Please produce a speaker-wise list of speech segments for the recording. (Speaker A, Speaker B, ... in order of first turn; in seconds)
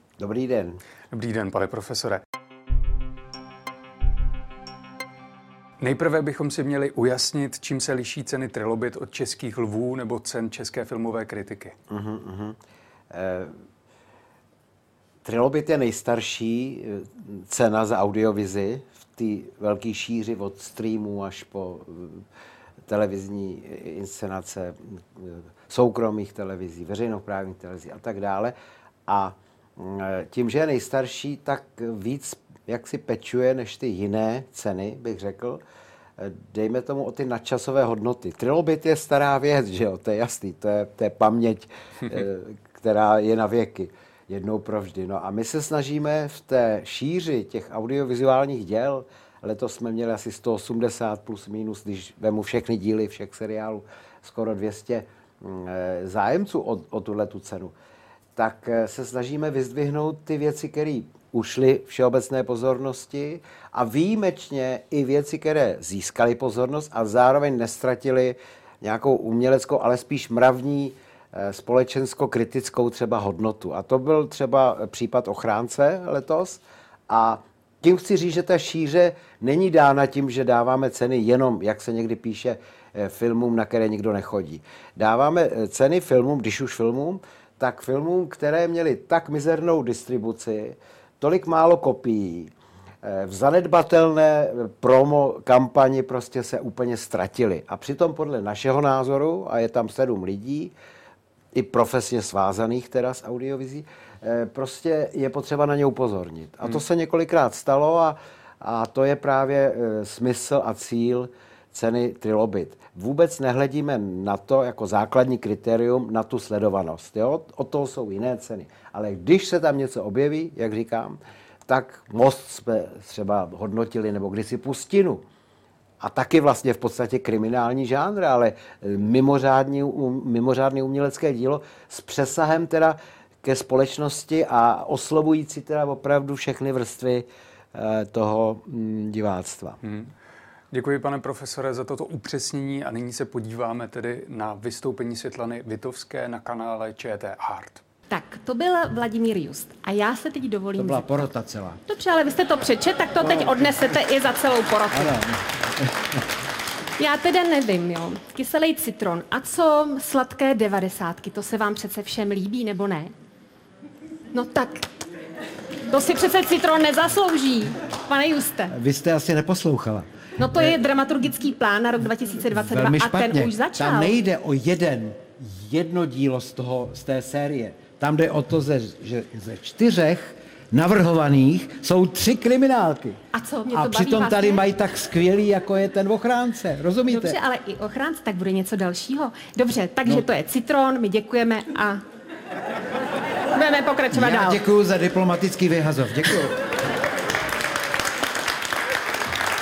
Speaker A: 0.2-0.8, 11.9-12.6, 13.1-13.6, 15.2-22.2, 22.9-28.5, 29.1-35.6, 36.2-57.7, 58.4-92.5, 93.0-100.7, 101.5-125.2, 126.0-139.8, 150.8-151.8, 153.2-153.7, 154.9-156.2, 168.7-170.8, 172.5-183.2, 183.7-187.4, 194.1-196.6
Speaker B: 1.1-2.2, 5.8-11.8, 139.8-140.1, 140.7-147.8
Speaker C: 148.1-151.3, 151.9-155.2, 157.0-163.1, 164.3-164.9, 165.9-168.7, 170.4-174.1, 183.3-184.7, 187.1-192.0, 193.5-194.6